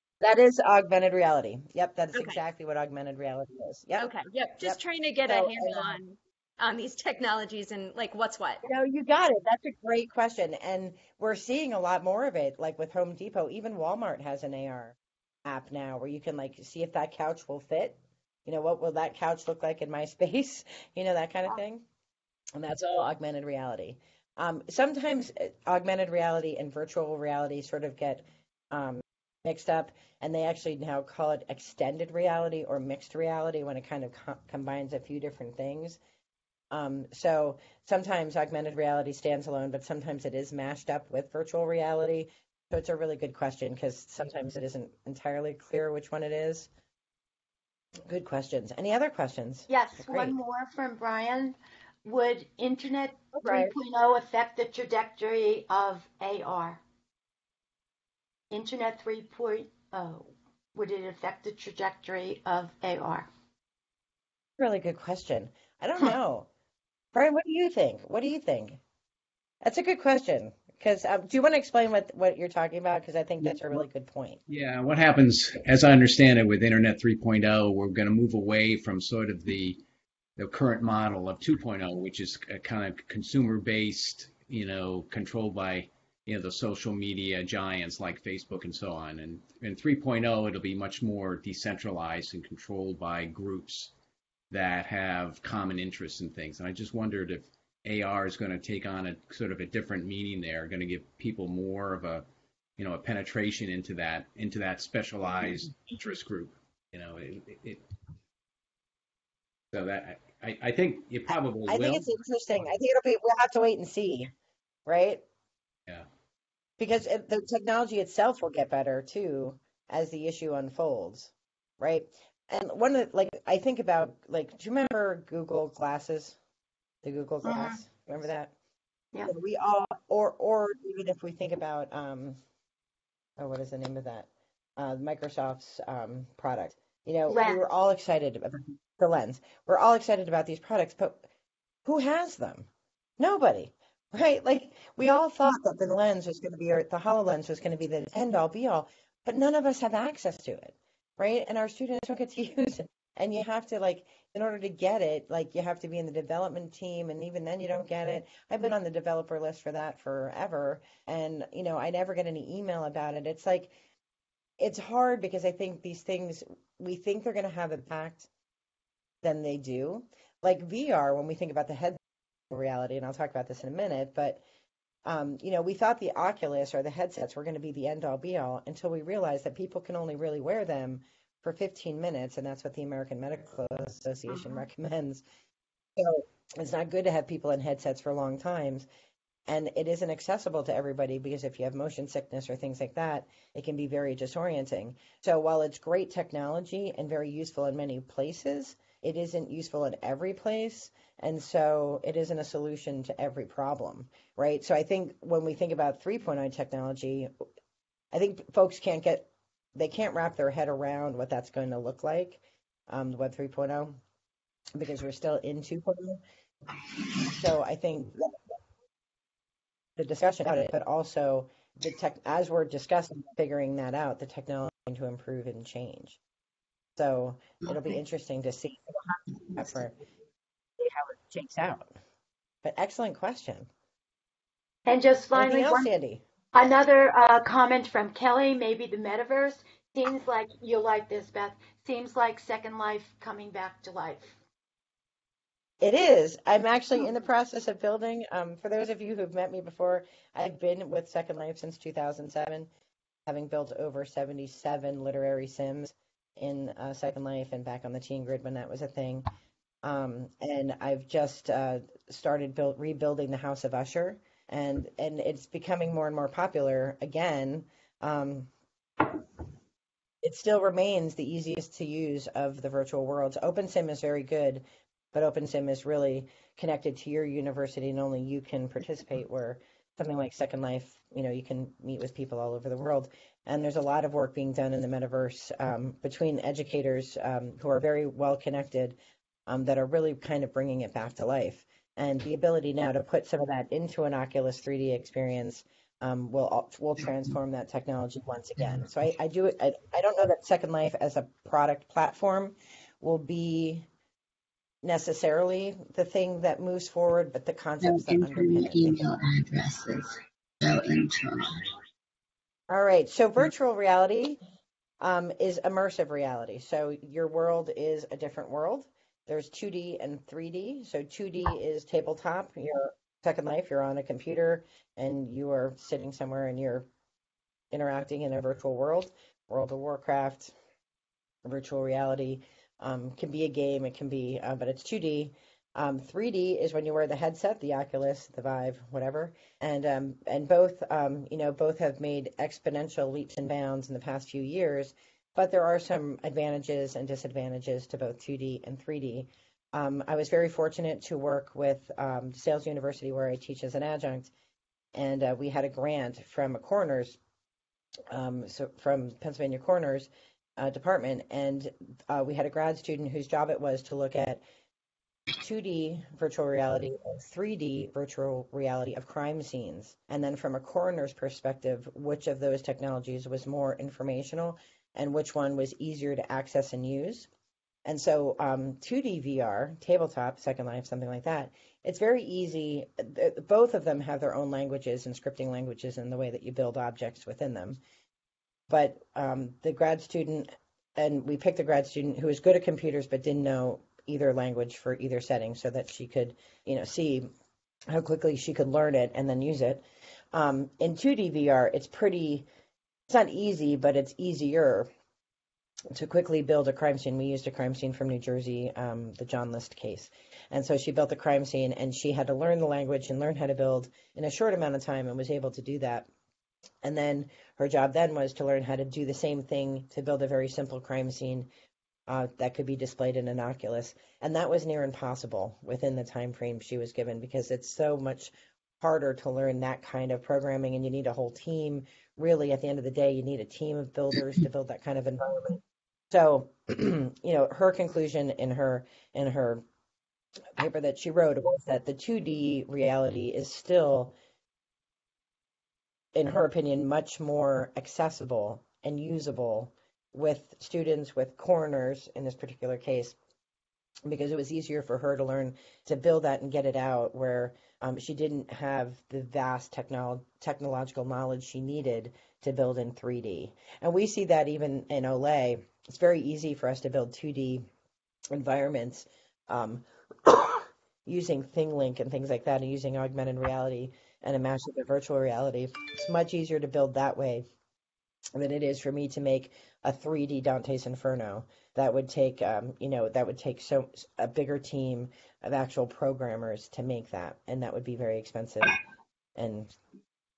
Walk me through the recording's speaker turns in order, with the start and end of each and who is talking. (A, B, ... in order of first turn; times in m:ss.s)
0:00.2-0:06.0 A
0:04.0-0:08.6 B
0:08.6-0:21.8 A
0:22.5-0:36.0 A
0:36.7-0:46.7 A
0:48.1-0:50.4 A
0:49.7-0:56.8 C
0:53.3-0:53.7 A
0:58.5-1:03.3 C
1:04.6-1:06.5 A
1:07.1-1:08.8 A
1:09.6-1:14.4 A
1:14.5-1:19.8 D
1:20.4-1:33.9 D
1:34.5-1:42.2 D
1:42.8-1:47.8 D
1:49.7-1:52.0 D
1:51.7-1:54.3 A
1:54.8-1:55.2 A
1:56.8-2:06.4 A
2:07.0-2:08.5 A
2:07.4-2:07.8 C
2:09.2-2:12.4 A
2:13.4-2:21.2 A
2:17.3-2:17.6 C
2:21.8-2:43.7 A
2:44.6-2:48.3 A
2:49.2-2:52.0 A
2:52.5-2:54.4 A
2:55.0-3:05.2 A
3:06.0-3:08.9 A
3:09.5-3:27.3 A
3:28.1-3:34.0 A
3:34.7-3:36.2 A
3:37.2-3:38.4 A
3:40.0-3:46.2 A
3:47.0-3:50.0 A
3:50.8-3:51.9 A
3:52.6-3:53.7 A
3:54.9-3:55.9 C
3:55.4-3:56.2 A
3:56.5-4:04.4 C
4:05.8-4:12.7 A
4:13.3-4:19.3 A
4:19.8-4:28.5 A
4:30.2-4:49.0 A
4:49.5-5:03.9 A
5:04.8-5:09.0 A
5:07.8-5:11.7 E
5:12.7-5:14.4 A
5:15.0-5:26.8 A
5:27.7-5:30.5 A
5:31.4-5:54.3 A
5:54.9-5:57.2 A
5:58.1-6:04.4 A
6:05.4-6:17.3 A
6:17.8-6:27.8 A
6:28.7-6:37.3 A
6:37.9-6:42.4 A
6:43.1-6:44.9 A
6:45.9-6:56.1 A
6:56.8-7:01.5 A
7:02.1-7:15.6 A
7:16.1-7:19.6 A
7:20.6-7:24.1 A
7:26.1-7:33.2 A
7:34.0-7:47.6 A
7:48.3-7:57.4 A
7:58.3-8:08.7 A
8:09.4-8:09.7 A